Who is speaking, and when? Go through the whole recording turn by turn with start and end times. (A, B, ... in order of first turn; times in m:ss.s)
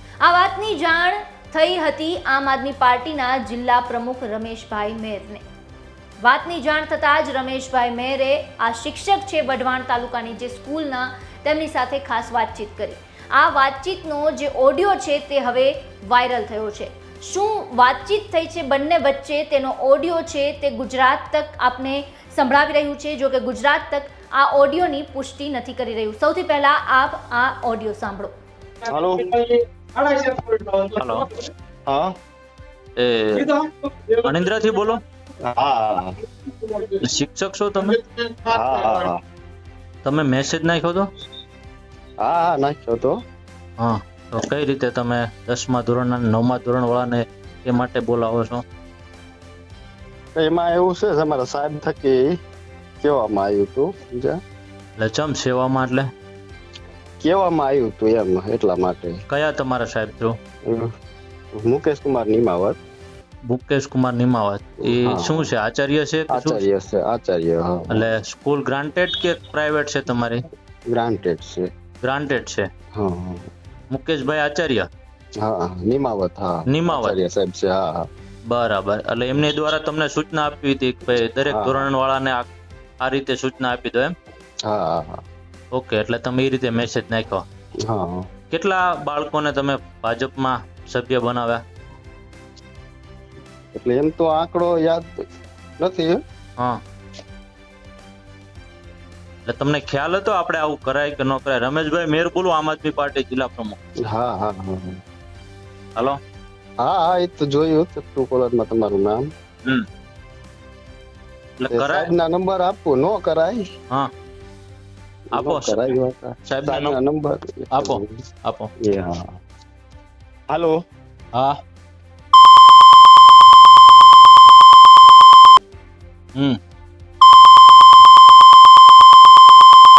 0:00.2-0:05.4 A
0:06.2-0:28.3 A
0:28.8-0:29.4 B
0:30.9-0:31.3 C
0:31.9-0:32.1 B
0:33.0-0:33.5 C
0:34.2-0:35.0 C
0:35.5-0:36.1 B
0:37.0-0:38.0 C
0:38.5-0:39.2 B
0:40.0-0:41.1 C
0:42.2-0:43.2 B
0:43.8-0:48.6 C
0:50.4-0:52.4 B
0:53.0-0:54.4 B
0:55.0-0:56.1 C
0:57.2-0:59.2 B
0:59.3-1:00.4 C
1:01.6-1:02.8 B
1:03.5-1:06.6 C
1:04.9-1:05.5 B
1:06.3-1:08.1 B
1:07.9-1:10.4 C
1:10.9-1:11.7 B
1:12.0-1:12.7 C
1:13.0-1:13.5 B
1:13.9-1:14.9 C
1:15.4-1:18.1 B
1:16.7-1:17.2 C
1:18.5-1:22.4 C
1:21.4-1:21.9 B
1:23.0-1:24.1 C
1:24.6-1:25.2 B
1:25.7-1:27.4 C
1:27.8-1:28.2 B
1:28.5-1:31.6 C
1:33.7-1:35.2 B
1:35.8-1:36.2 B
1:39.4-1:43.8 C
1:44.0-1:45.0 B
1:46.8-1:49.3 B
1:51.6-1:52.1 C
1:51.7-1:53.6 B
1:55.3-1:55.9 C
1:55.3-1:58.2 B
1:56.5-1:57.0 C
1:57.8-1:58.7 C
1:58.8-1:59.4 B
2:00.5-2:00.8 B
2:01.3-2:01.6 C